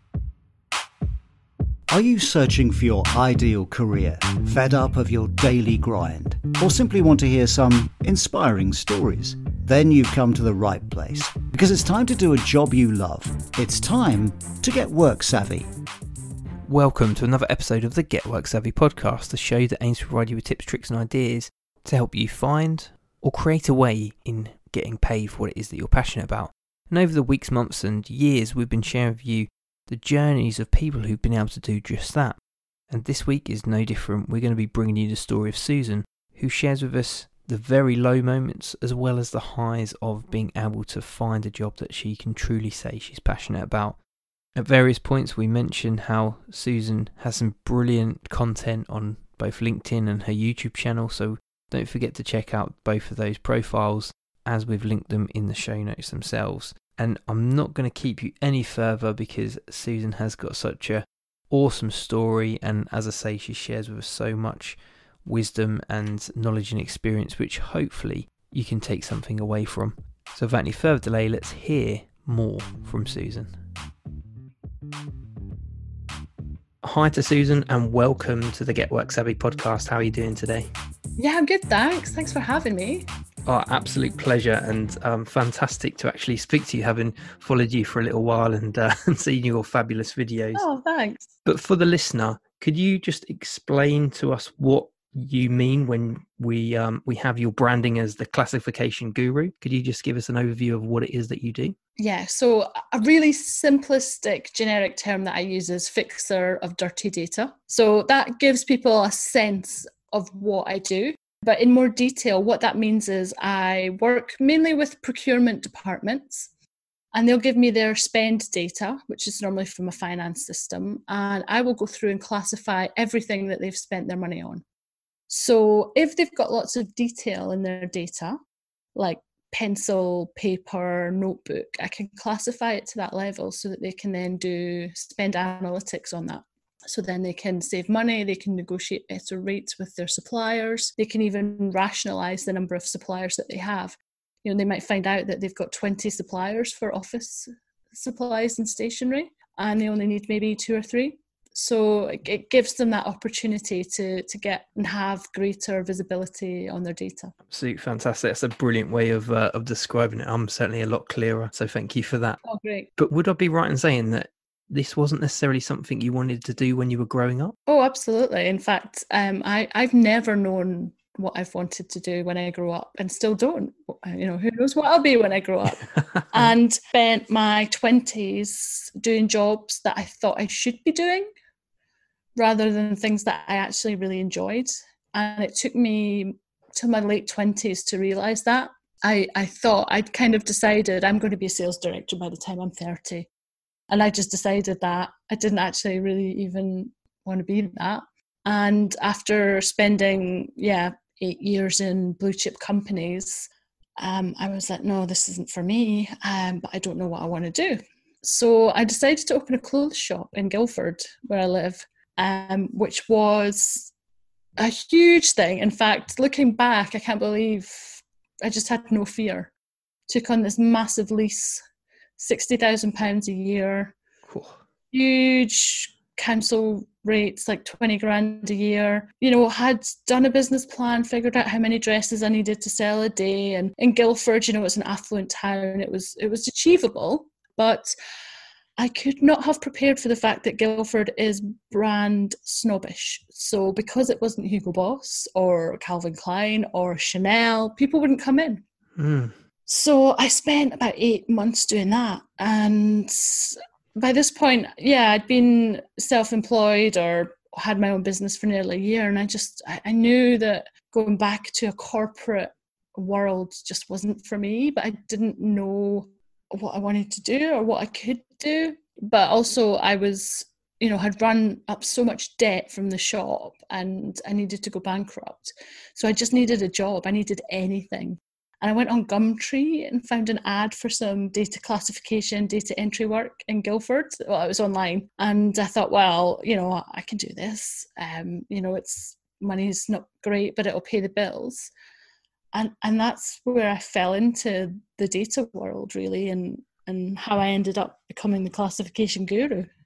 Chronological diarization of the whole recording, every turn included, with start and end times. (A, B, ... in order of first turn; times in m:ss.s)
0:01.9-0:15.7 A
0:16.7-0:44.0 B
0:44.5-1:13.6 B
1:16.8-1:20.7 B
1:21.2-1:23.0 C
1:23.4-1:30.6 B
1:30.5-1:31.3 C
1:31.4-1:41.8 B
1:42.0-1:56.5 C
1:57.1-2:04.6 C
2:05.3-2:08.4 C
2:08.9-2:37.3 C
2:37.5-2:42.4 B
2:42.4-2:42.9 C
2:43.0-2:47.6 B
2:47.7-3:01.3 C
2:55.9-2:56.5 B
3:02.4-3:13.3 C
3:13.9-3:33.9 C
3:34.6-3:39.5 C
3:40.1-3:41.6 C
3:42.2-3:43.9 C
3:44.3-3:44.6 B
3:44.9-3:57.9 C
3:58.8-4:08.6 C
4:09.0-4:09.3 B
4:09.7-4:51.7 C
4:52.5-4:59.7 C